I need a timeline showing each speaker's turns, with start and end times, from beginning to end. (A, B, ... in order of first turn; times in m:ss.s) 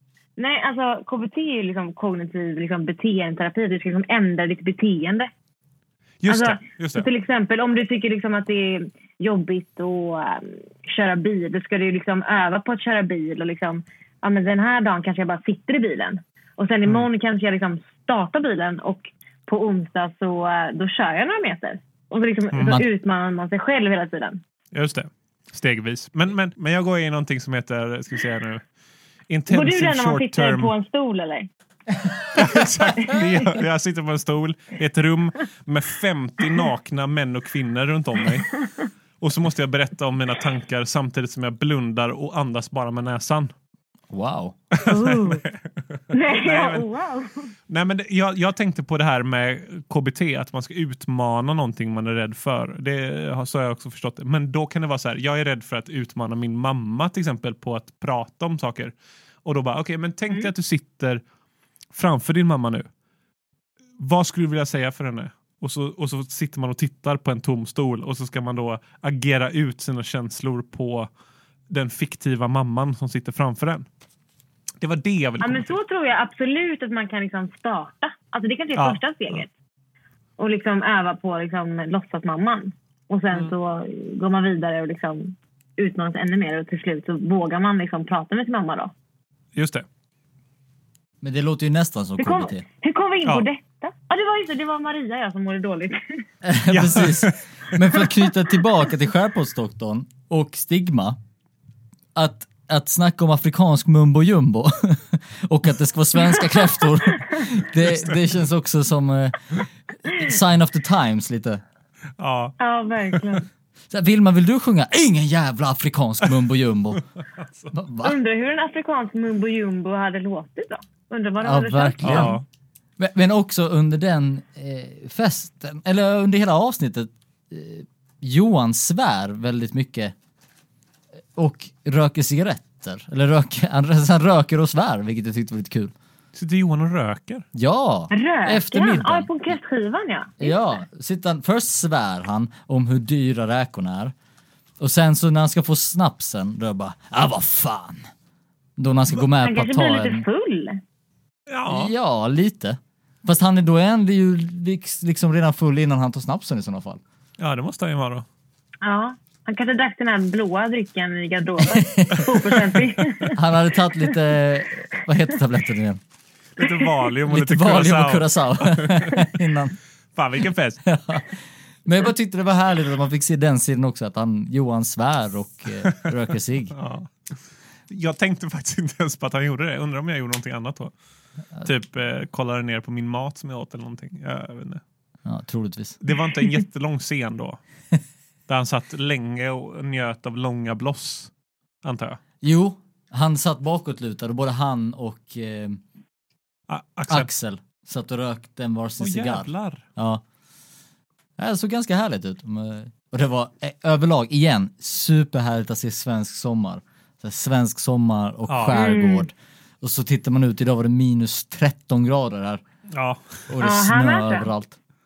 0:00.4-0:05.3 A
0:06.2-0:07.1 B
0:06.3-0:24.4 A
0:22.5-0:22.8 B
0:24.7-0:28.6 B
0:29.3-0:30.7 B
0:29.5-0:31.5 A
0:32.3-0:38.6 B
0:32.9-0:33.3 A
0:39.2-0:43.5 B
0:44.1-0:44.6 C
0:44.8-0:45.6 B
0:44.8-0:45.4 A
0:46.1-0:47.5 A
0:46.1-0:46.8 B
0:47.7-1:01.2 B
1:01.9-1:02.9 B
1:04.0-1:11.1 B
1:11.7-1:13.8 B
1:14.8-1:15.7 B
1:15.4-1:19.5 A
1:18.7-1:19.4 B
1:20.4-1:28.9 A
1:29.6-1:29.8 B
1:31.2-1:32.6 C
1:32.2-1:36.2 A
1:36.4-1:41.2 C
1:36.7-1:37.4 B
1:42.1-1:51.6 C
1:52.2-1:52.5 B
1:52.6-1:53.5 A
1:53.9-1:57.0 C
1:57.4-1:57.7 B
1:57.7-1:58.1 C
1:58.0-2:02.4 A
2:01.4-2:02.4 C
2:02.0-2:02.4 B
2:03.0-2:10.1 C
2:11.4-2:15.9 C
2:16.3-2:17.4 B
2:17.5-2:19.6 C
2:18.1-2:20.5 A
2:20.4-2:24.1 C
2:24.8-2:28.0 C
2:28.8-2:30.2 C
2:29.4-2:30.8 A
2:31.5-2:31.9 B
2:31.7-2:37.0 C
2:37.4-2:38.2 B
2:38.8-2:43.4 A
2:41.7-2:42.3 C
2:43.3-2:46.0 C
2:46.6-2:49.2 B
2:47.3-2:49.7 C
2:50.1-2:50.8 B
2:50.8-2:51.3 C
2:51.8-2:56.7 C
2:56.8-2:57.1 B
2:57.9-3:00.9 B
3:01.6-3:04.8 B
3:05.2-3:06.0 C
3:06.0-3:07.6 B
3:08.5-3:11.3 B
3:11.8-3:12.2 B
3:12.4-3:15.8 C
3:16.7-3:17.3 B
3:17.1-3:20.2 C
3:19.0-3:19.8 B
3:21.4-3:32.6 C
3:28.5-3:28.8 B
3:28.7-3:29.3 A
3:32.9-3:33.2 B
3:33.5-3:34.8 C
3:33.6-3:34.5 A